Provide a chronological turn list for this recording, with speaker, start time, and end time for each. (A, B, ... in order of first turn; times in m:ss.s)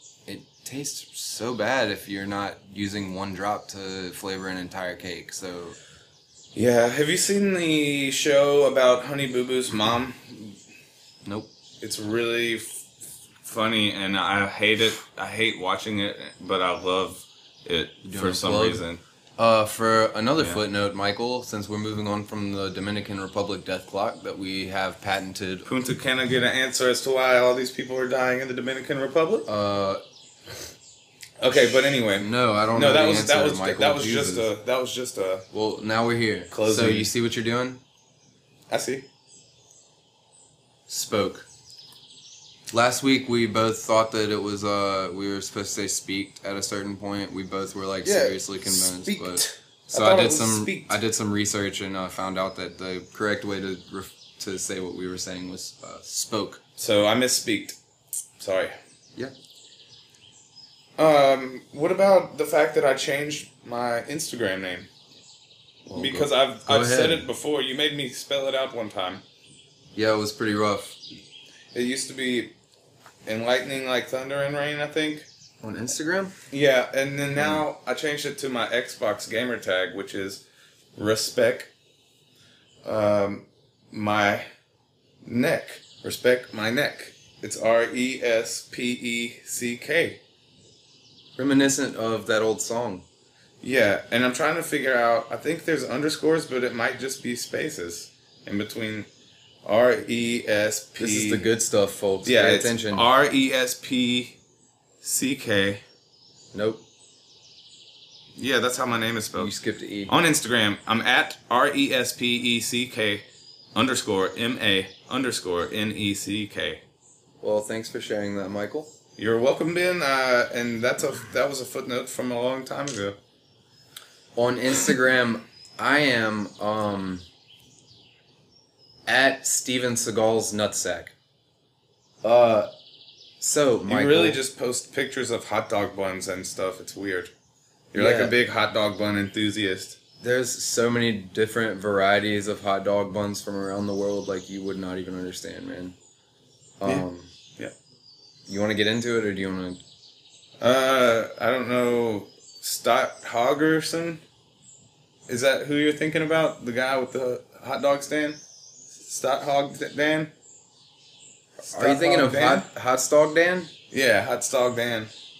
0:00.3-0:05.8 A
0:06.6-0:10.6 B
0:11.2-0:11.5 A
0:11.8-0:12.8 B
0:13.4-0:19.0 B
0:18.0-0:18.8 A
0:19.4-0:25.7 A
0:25.7-0:29.5 B
0:29.5-0:30.0 A
0:31.4-0:35.5 B
0:32.2-0:34.5 A
0:35.5-0:37.8 A
0:36.5-0:37.1 B
0:38.7-0:39.1 B
0:40.9-0:41.5 A
0:42.7-0:56.6 A
0:48.0-0:51.0 B
0:56.8-0:57.8 B
0:58.4-0:58.8 B
1:01.0-1:04.9 B
1:05.9-1:07.3 A
1:06.0-1:09.2 B
1:10.0-1:11.0 A
1:11.7-1:12.5 B
1:13.3-1:15.3 B
1:15.6-1:16.4 A
1:16.5-1:20.4 B
1:21.0-1:21.7 B
1:22.8-1:24.5 B
1:25.2-1:30.2 B
1:31.4-1:33.1 A
1:33.6-1:39.1 B
1:39.6-1:41.4 B
1:41.0-1:43.1 A
1:42.2-1:44.4 B
1:45.0-1:45.8 B
1:46.5-1:46.8 A
1:48.4-1:49.5 B
1:49.4-1:50.1 A
1:50.1-1:56.8 B
1:57.4-1:58.9 A
1:59.2-2:03.2 B
2:04.4-2:07.2 A
2:09.1-2:11.1 A
2:12.2-2:12.7 A
2:13.4-2:14.4 A
2:13.9-2:17.3 B
2:17.9-2:20.0 B
2:18.0-2:18.4 A
2:20.2-2:26.0 A
2:26.8-2:27.3 A
2:28.5-2:29.8 A
2:30.6-2:34.2 B
2:35.3-2:38.4 B
2:39.0-2:40.3 B
2:41.7-2:42.7 B
2:41.7-2:43.7 A
2:43.9-2:45.1 B